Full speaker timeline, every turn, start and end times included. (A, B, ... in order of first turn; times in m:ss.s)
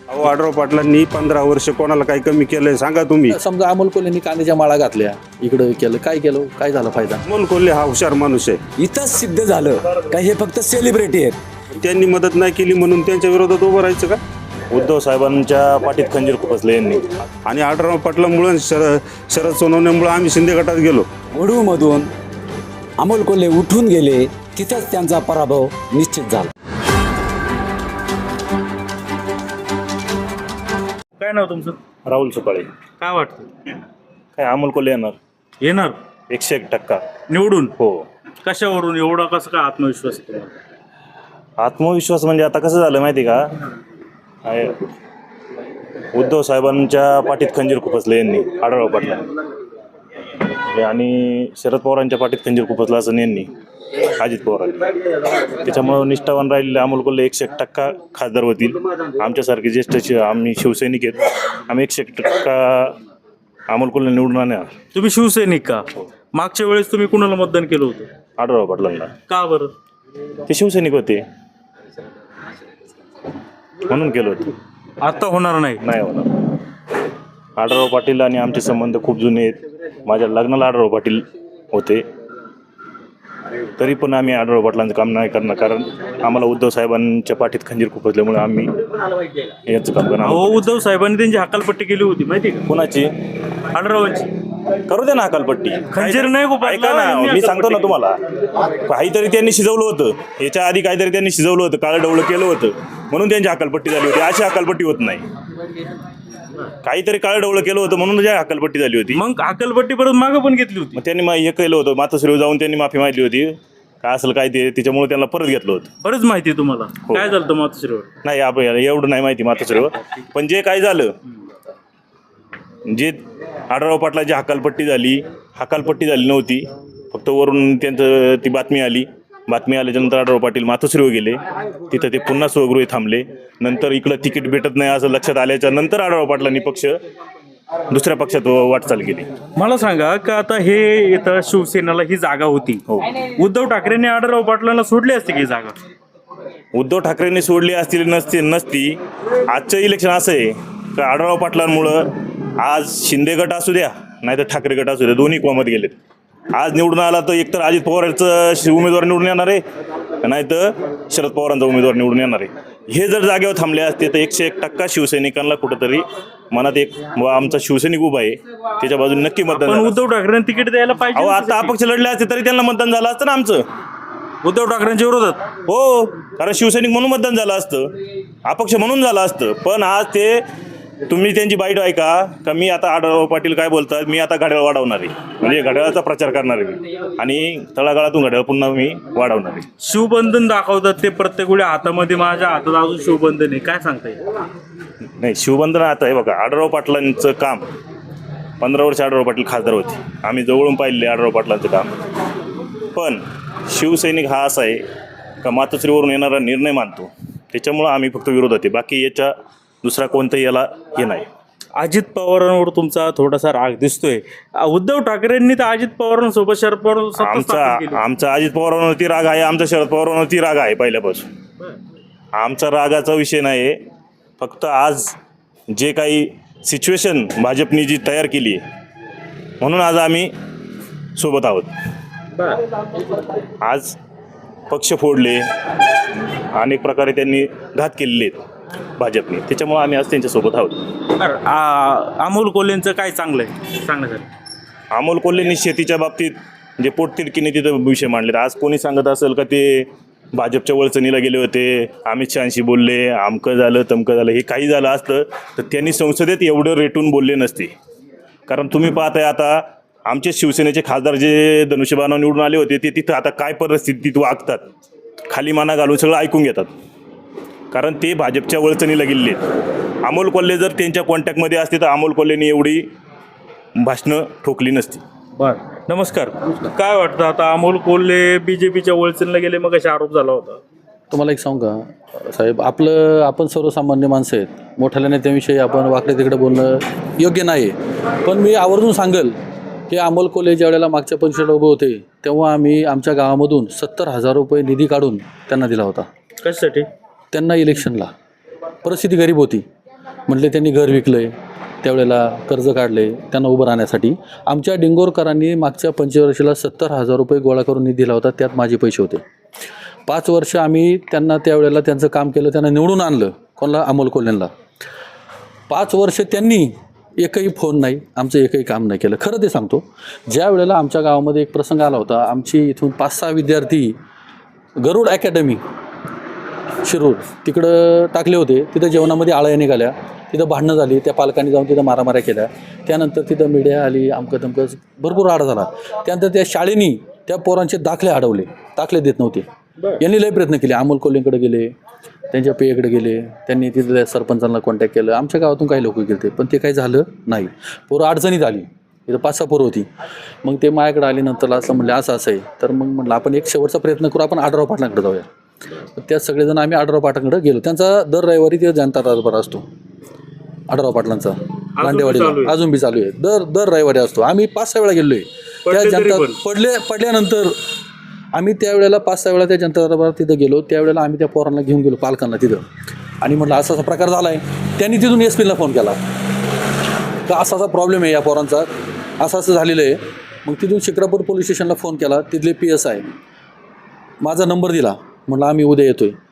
0:00.1-0:03.4 A
0:03.3-0:07.2 B
0:07.2-0:08.6 A
0:08.8-0:11.4 C
0:11.8-0:14.2 A
0:14.7-0:17.0 D
0:17.5-0:21.0 A
0:21.3-0:22.1 C
0:23.0-0:26.5 C
0:31.2-0:31.8 E
0:32.0-0:32.7 D
0:33.0-0:33.5 E
0:34.4-0:35.2 D
0:35.6-0:36.0 E
0:36.3-0:37.2 D
0:37.3-0:37.7 E
0:37.8-0:38.1 D
0:38.4-0:40.5 E
0:41.6-0:43.5 D
0:44.4-0:44.8 D
0:46.1-0:49.3 D
0:50.7-0:53.5 D
0:54.2-0:54.8 D
0:55.5-1:03.0 D
1:03.7-1:04.8 D
1:04.9-1:08.1 E
1:08.4-1:09.2 D
1:09.3-1:09.7 E
1:10.5-1:11.2 D
1:13.8-1:14.6 D
1:15.0-1:15.8 E
1:15.8-1:16.3 D
1:17.6-1:22.0 D
1:23.8-1:28.7 D
1:29.7-1:30.7 D
1:30.2-1:32.6 E
1:32.7-1:33.1 D
1:33.7-1:34.3 E
1:34.9-1:38.2 D
1:35.9-1:38.0 E
1:38.8-1:45.2 D
1:46.8-1:49.2 D
1:49.1-1:51.0 E
1:51.0-1:55.9 D
1:56.0-1:58.1 E
1:58.2-2:01.1 D
2:02.9-2:03.2 D
2:03.7-2:17.0 D
2:17.9-2:19.3 D
2:19.6-2:25.8 E
2:22.9-2:23.2 D
2:26.7-2:36.0 D
2:36.5-2:39.6 D
2:40.2-2:50.0 D
2:49.5-2:51.8 E
2:51.2-2:53.6 D
2:54.4-2:55.4 E
2:55.7-2:57.9 D
2:58.4-3:00.4 D
3:01.1-3:09.7 D
3:09.8-3:14.2 E
3:15.2-3:17.7 D
3:18.6-3:22.0 D
3:22.9-3:24.8 D
3:25.4-3:31.3 D
3:31.8-3:38.0 E
3:37.2-3:41.3 D
3:42.4-3:43.8 D
3:44.4-3:45.2 D
3:45.7-3:48.6 D
3:49.6-3:50.3 D
3:51.2-3:51.7 D
3:53.6-3:54.0 D
3:54.7-3:55.5 D
3:56.4-3:58.4 D
3:59.0-4:00.9 D
4:01.2-4:04.3 E
4:04.9-4:17.7 D
4:18.5-4:24.6 D
4:25.3-4:26.7 D
4:27.7-4:29.4 D
4:30.0-4:32.9 D
4:33.8-4:35.0 D
4:35.4-4:40.6 E
4:41.1-4:49.4 B
4:49.9-4:56.1 B
4:56.4-4:56.9 E
4:57.3-4:58.1 B
4:58.8-4:59.6 B
5:00.3-5:09.2 B
5:10.1-5:14.5 B
5:15.7-5:24.0 B
5:24.8-5:25.6 B
5:26.8-5:39.5 B
5:40.0-5:41.7 B
5:42.3-5:49.9 B
5:50.4-5:55.3 B
5:56.0-5:59.6 B
6:00.7-6:07.6 B
6:01.8-6:02.6 E
6:05.7-6:06.4 E
6:08.3-6:12.7 B
6:13.2-6:16.0 B
6:17.3-6:23.1 B
6:24.2-6:26.2 B